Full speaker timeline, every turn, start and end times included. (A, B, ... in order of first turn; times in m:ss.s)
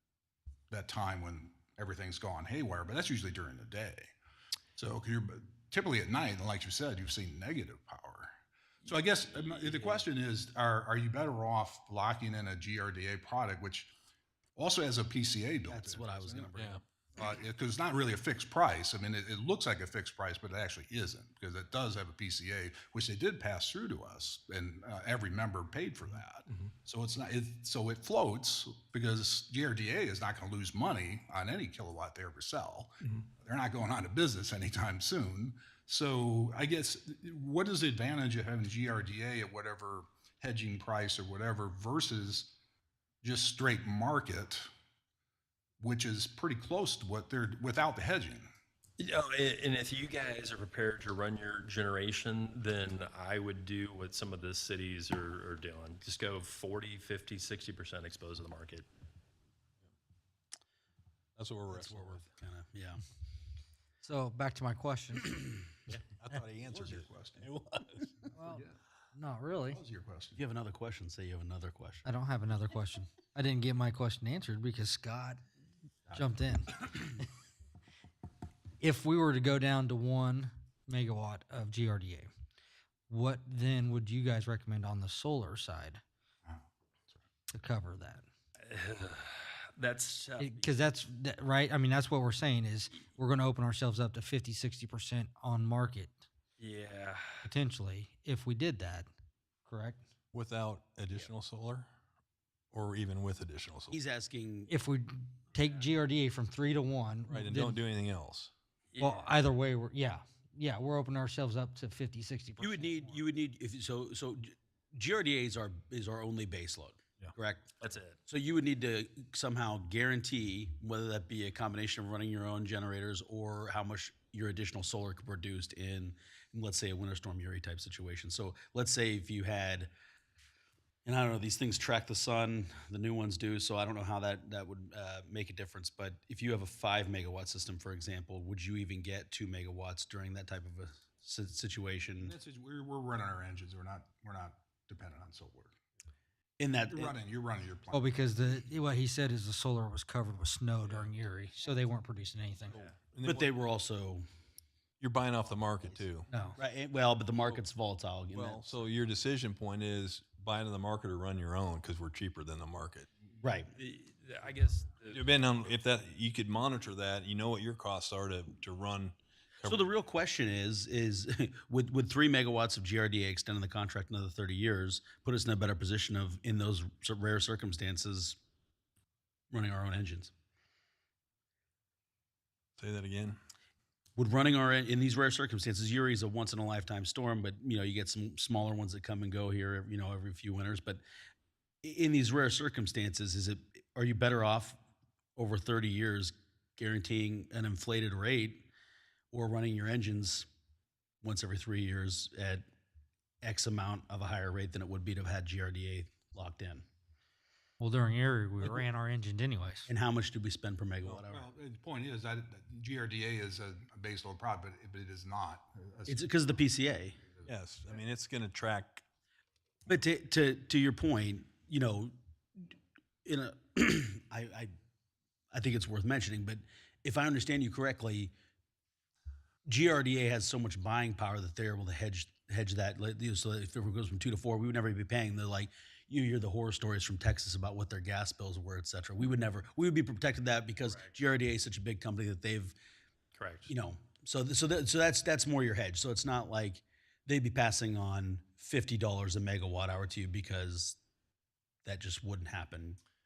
0:00.7-0:04.1 A
0:04.8-0:08.3 A
0:08.8-0:10.1 B
0:08.9-0:13.9 A
0:14.6-0:16.5 A
0:15.7-0:16.8 C
0:17.2-0:42.6 A
0:43.2-0:44.7 A
0:45.8-0:48.5 A
0:49.0-0:58.9 B
1:01.4-1:02.2 D
1:01.7-1:03.0 C
1:04.0-1:05.3 E
1:06.2-1:07.5 A
1:06.8-1:07.8 D
1:08.4-1:09.8 E
1:08.4-1:08.8 A
1:09.7-1:10.4 A
1:10.4-1:12.0 C
1:12.1-1:15.4 E
1:16.1-1:16.9 E
1:18.8-1:22.3 E
1:23.1-1:26.0 E
1:26.5-1:27.2 A
1:27.5-1:28.2 E
1:28.7-1:30.8 B
1:30.4-1:36.1 E
1:36.6-1:37.5 B
1:37.4-1:39.1 E
1:39.7-1:40.0 E
1:40.3-1:41.9 D
1:42.7-1:44.0 D
1:43.9-1:44.7 C
1:44.7-1:47.8 E
1:45.5-1:45.9 B
1:47.3-1:48.5 D
1:48.9-1:49.3 B
1:49.0-1:53.2 E
1:52.6-1:57.7 C
1:57.8-1:58.2 B
1:58.3-2:09.9 C
2:11.0-2:22.3 C
2:22.2-2:25.8 A
2:26.6-2:27.2 C
2:26.9-2:28.2 A
2:27.9-2:32.8 E
2:32.7-2:33.5 D
2:33.2-2:34.2 C
2:35.0-2:36.3 D
2:36.3-2:36.6 E
2:36.6-2:38.8 C
2:38.3-2:43.1 D
2:43.4-2:43.7 C
2:43.8-2:45.3 B
2:45.1-2:49.8 D
2:49.6-2:58.4 C
2:59.5-3:00.3 C
3:02.8-3:03.4 D
3:04.2-3:11.0 C
3:11.8-3:14.8 C
3:15.4-3:18.7 C
3:19.3-3:20.5 C
3:21.2-3:22.6 C
3:23.4-3:26.8 C
3:27.8-3:29.9 E
3:29.9-3:31.5 C
3:31.3-3:36.3 A
3:36.1-3:37.2 C
3:37.5-3:39.0 D
3:39.9-3:42.7 C
3:43.2-3:44.7 C
3:45.5-3:48.3 C
3:49.7-4:02.7 C
4:00.8-4:01.2 B
4:03.4-4:03.7 B
4:03.7-4:11.0 C
4:11.8-4:13.0 C